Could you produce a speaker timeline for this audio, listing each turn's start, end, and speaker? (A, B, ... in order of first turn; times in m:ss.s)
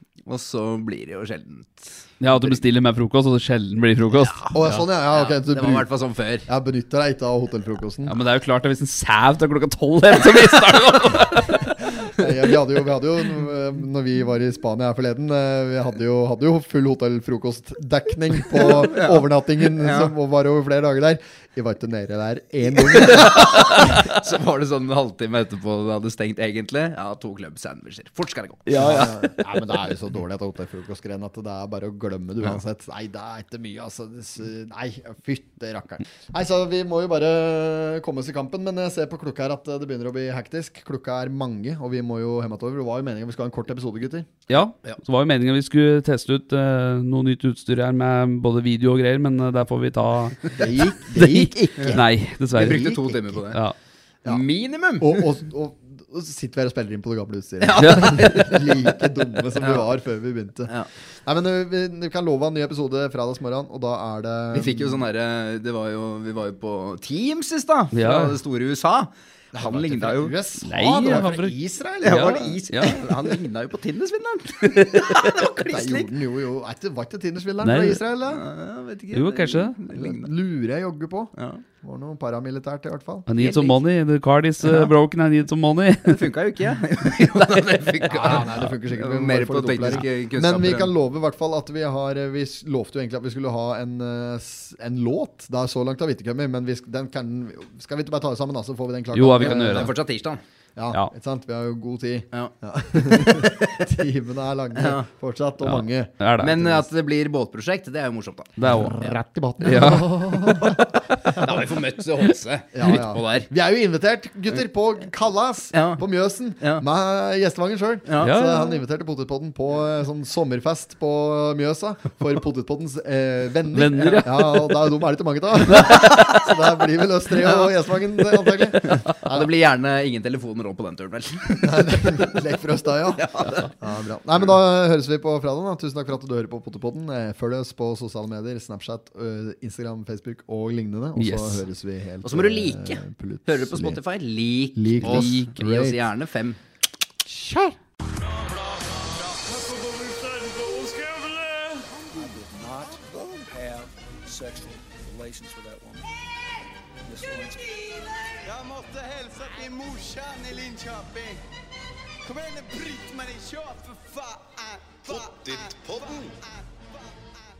0:00.3-0:02.1 A
0:02.2-0:04.5 B
0:04.2-0:06.5 A
0:04.5-0:05.9 C
0:06.5-0:08.2 C
0:08.1-0:12.1 B
0:12.2-0:24.0 C
0:18.6-0:19.2 A
0:19.8-0:20.1 A
0:22.9-0:28.7 A
0:28.7-0:29.6 B
0:28.8-0:44.4 C
0:44.5-0:53.0 B
0:50.6-0:53.4 C
0:52.6-0:53.6 A
0:54.3-0:55.3 A
0:55.0-1:05.0 C
0:57.6-0:59.8 A
0:57.8-0:58.2 B
1:04.5-1:10.3 A
1:07.9-1:08.4 B
1:09.5-1:13.3 C
1:10.6-1:13.0 B
1:12.0-1:16.1 A
1:15.7-1:18.4 C
1:17.6-1:18.0 B
1:18.3-1:20.3 A
1:19.1-1:19.8 B
1:19.9-1:23.3 C
1:21.4-1:21.6 A
1:23.3-1:26.3 B
1:23.4-1:23.8 A
1:24.6-1:24.9 A
1:26.0-1:30.9 A
1:28.0-1:39.9 C
1:39.1-1:39.9 B
1:39.4-1:40.4 A
1:40.8-1:46.8 C
1:42.3-1:43.8 A
1:44.8-1:45.1 A
1:45.6-1:46.6 B
1:46.4-1:49.1 A
1:48.6-1:49.0 B
1:48.7-1:51.8 C
1:49.6-1:50.7 B
1:51.3-1:53.5 A
1:52.7-2:09.4 C
1:55.7-1:56.0 A
1:58.1-1:58.3 A
1:58.2-1:58.8 B
2:03.7-2:04.8 B
2:04.0-2:04.2 A
2:05.8-2:06.2 B
2:07.4-2:07.7 A
2:08.8-2:12.4 A
2:11.6-2:24.0 C
2:13.1-2:13.7 A
2:21.2-2:21.6 B
2:22.2-2:26.6 A
2:24.8-2:26.1 C
2:25.0-2:25.5 B
2:27.3-2:27.8 C
2:28.0-2:32.0 D
2:32.1-2:36.1 E
2:37.0-2:37.9 E
2:38.4-2:41.4 D
2:42.2-2:47.4 D